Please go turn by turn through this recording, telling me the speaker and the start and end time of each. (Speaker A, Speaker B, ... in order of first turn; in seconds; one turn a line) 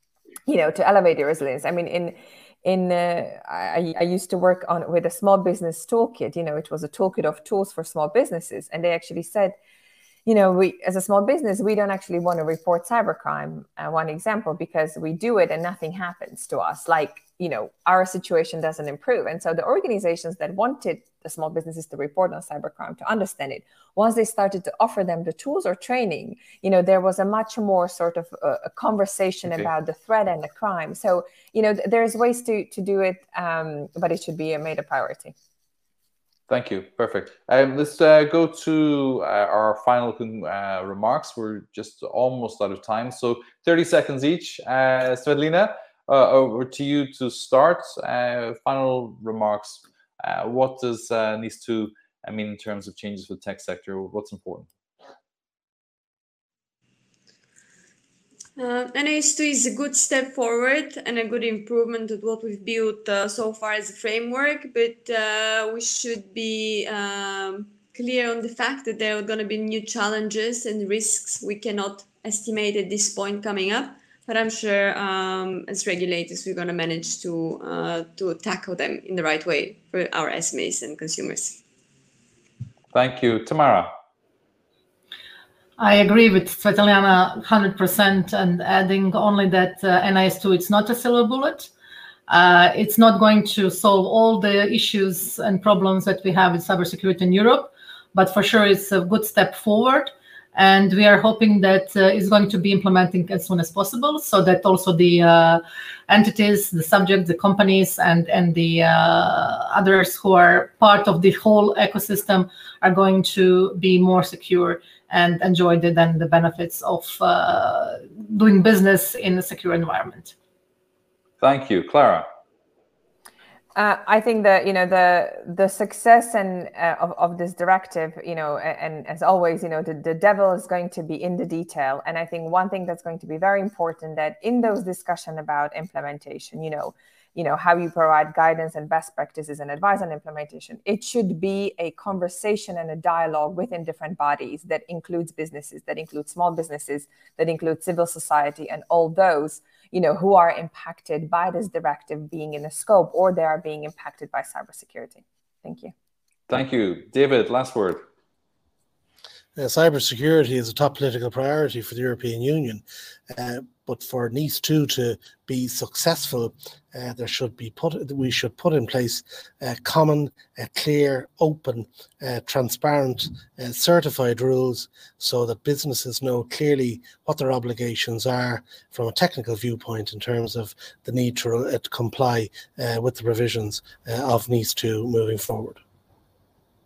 Speaker A: 0.5-9.6
Speaker A: 10.3-35.4
Speaker B: 36.5-54.7
Speaker C: 58.6-81.6
Speaker B: 82.9-83.9
Speaker D: 85.8-91.7
Speaker D: 92.3-120.3
Speaker B: 121.4-122.3
Speaker A: 123.8-155.9
Speaker B: 156.5-158.0
Speaker E: 159.6-185.8